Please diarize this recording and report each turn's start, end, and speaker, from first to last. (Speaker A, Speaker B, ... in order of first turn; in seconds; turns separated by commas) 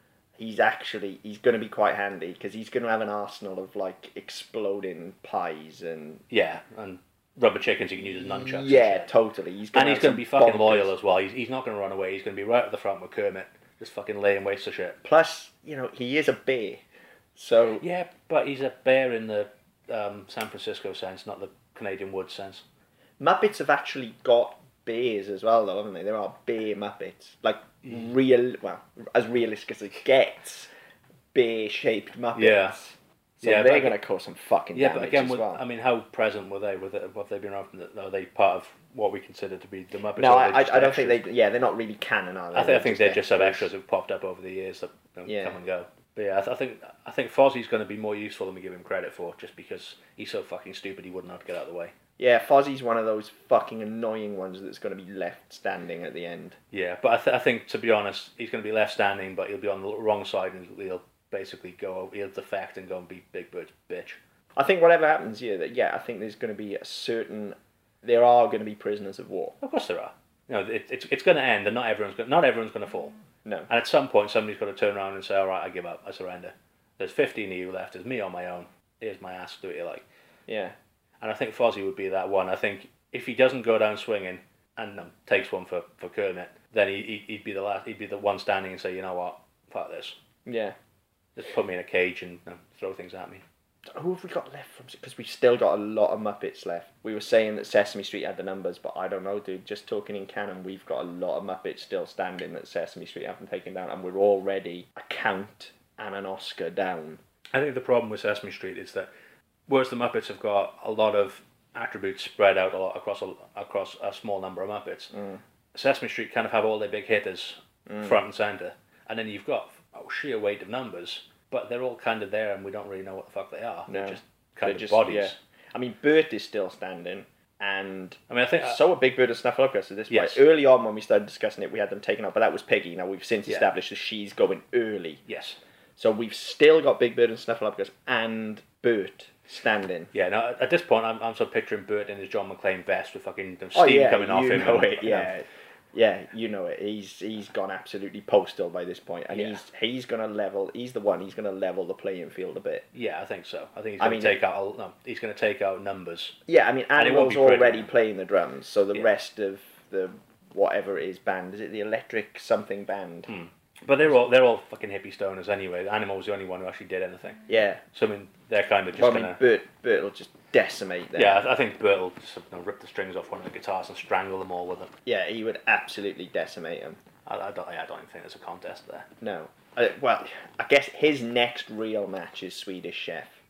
Speaker A: 0.4-6.2, Speaker B: 6.3-9.1, Speaker A: 8.0-10.9, Speaker B: 9.7-15.0, Speaker A: 15.0-16.8, Speaker A: 17.4-17.8, Speaker B: 17.8-22.6, Speaker A: 23.2-30.7, Speaker A: 31.3-35.6, Speaker B: 32.3-32.8, Speaker B: 33.4-34.0, Speaker B: 34.7-41.2, Speaker A: 40.1-43.7, Speaker B: 42.5-51.9, Speaker A: 45.2-45.6, Speaker A: 52.2-56.6, Speaker B: 56.7-64.2, Speaker A: 64.5-69.5, Speaker B: 69.6-73.1, Speaker B: 73.7-80.0, Speaker A: 80.5-80.7, Speaker B: 81.2-90.2, Speaker A: 90.5-90.8, Speaker B: 91.3-93.4, Speaker A: 93.9-107.2, Speaker B: 107.5-109.1, Speaker B: 109.7-115.1, Speaker A: 115.1-115.4, Speaker B: 115.7-125.4, Speaker A: 117.9-118.2, Speaker A: 123.9-135.2, Speaker B: 128.3-128.8, Speaker B: 130.1-130.4, Speaker B: 135.3-135.6, Speaker A: 136.0-140.1, Speaker B: 140.1-145.3, Speaker A: 143.7-152.8, Speaker B: 149.3-149.6, Speaker B: 152.9-156.4, Speaker A: 154.0-154.4, Speaker A: 156.5-163.3, Speaker B: 156.9-157.9, Speaker B: 163.3-169.4, Speaker A: 167.5-167.8, Speaker A: 168.9-171.4, Speaker B: 171.2-174.9, Speaker A: 175.1-177.0, Speaker B: 177.2-179.1, Speaker A: 179.2-183.3